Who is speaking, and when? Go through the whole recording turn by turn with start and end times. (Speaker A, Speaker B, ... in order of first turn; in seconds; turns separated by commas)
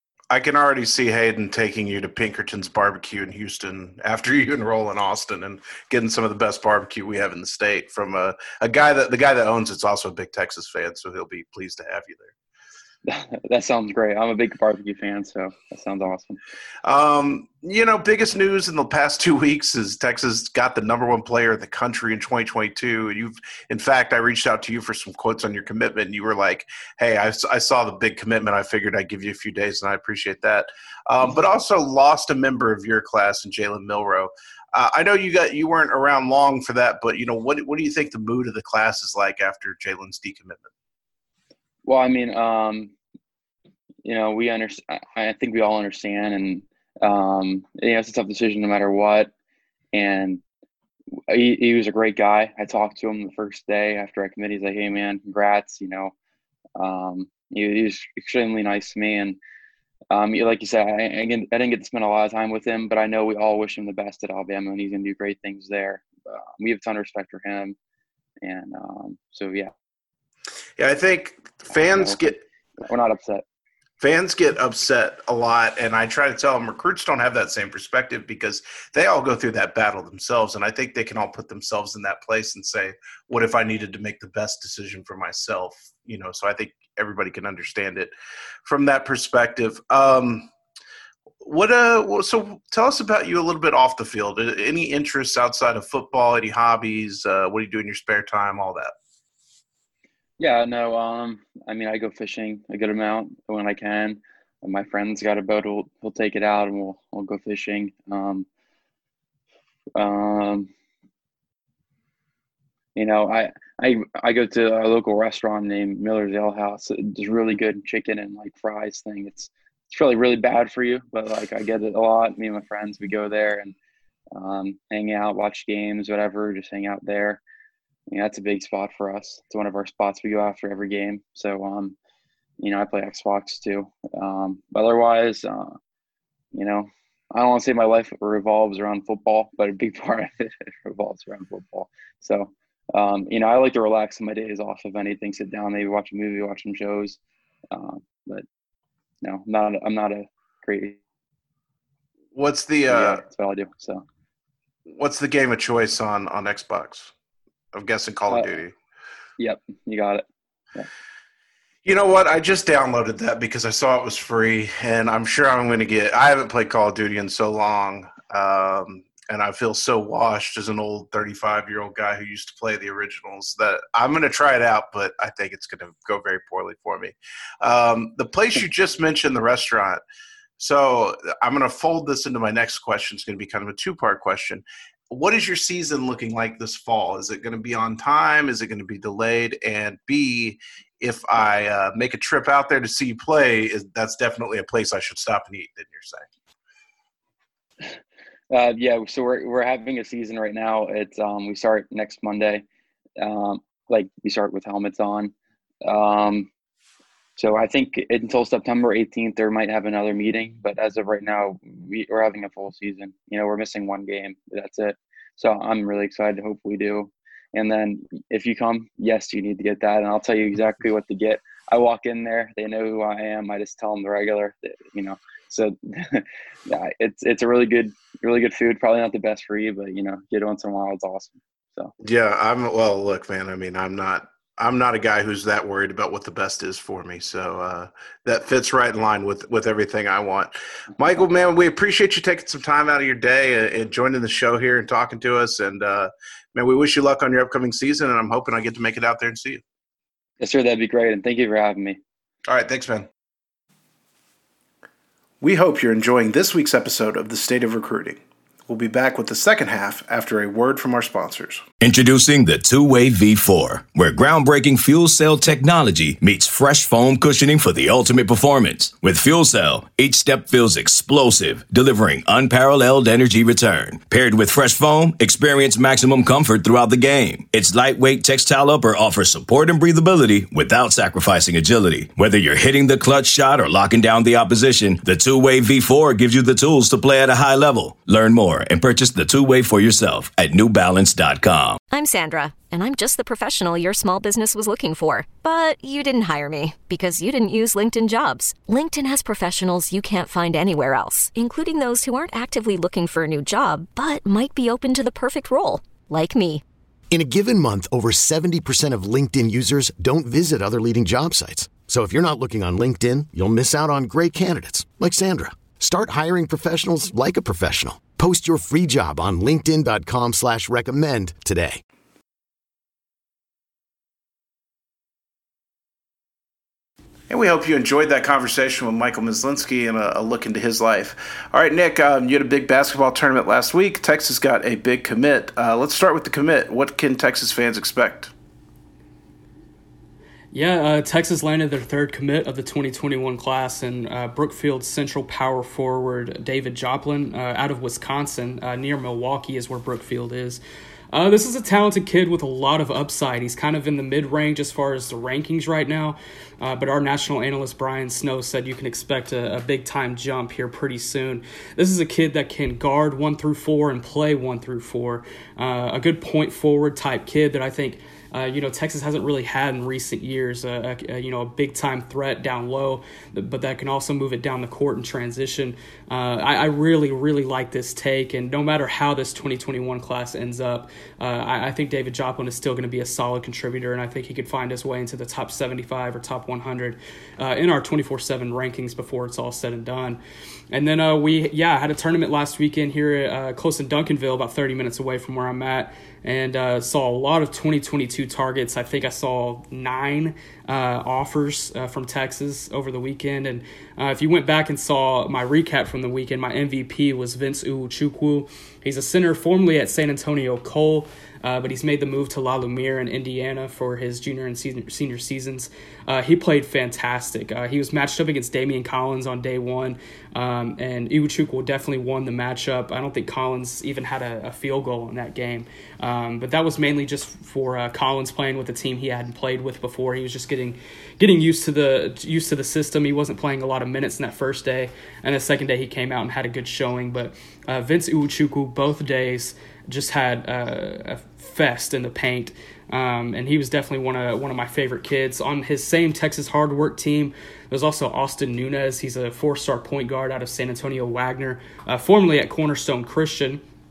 Speaker A: 0.3-12.3, Speaker B: 13.1-16.4, Speaker A: 16.8-40.7, Speaker B: 41.9-42.9, Speaker B: 44.0-49.3, Speaker B: 49.9-50.4, Speaker B: 51.3-56.1, Speaker B: 56.8-59.4, Speaker B: 60.1-67.8, Speaker B: 68.4-69.7, Speaker A: 70.8-72.4, Speaker B: 71.9-72.2, Speaker B: 72.8-73.4, Speaker A: 74.0-88.1, Speaker A: 88.7-90.5, Speaker A: 91.4-98.9, Speaker B: 100.4-108.5, Speaker B: 110.0-110.7, Speaker B: 113.0-123.8, Speaker B: 124.3-127.4, Speaker B: 128.1-132.0, Speaker B: 132.6-135.8, Speaker B: 136.5-147.2, Speaker B: 147.7-148.4, Speaker B: 149.2-151.0, Speaker A: 152.3-153.2, Speaker B: 152.9-154.0, Speaker A: 154.9-157.1, Speaker A: 157.7-158.8, Speaker B: 159.4-160.9, Speaker A: 161.8-180.0, Speaker A: 180.6-196.3, Speaker B: 198.5-202.7, Speaker B: 203.2-205.3, Speaker B: 205.8-206.5, Speaker B: 207.4-231.9, Speaker A: 232.0-249.6, Speaker B: 250.4-252.0, Speaker A: 252.5-253.1, Speaker A: 255.4-261.6, Speaker C: 261.8-291.8, Speaker D: 291.9-306.6, Speaker E: 307.1-321.8, Speaker A: 327.3-338.3, Speaker F: 340.5-350.6, Speaker F: 351.1-390.2, Speaker F: 390.7-453.6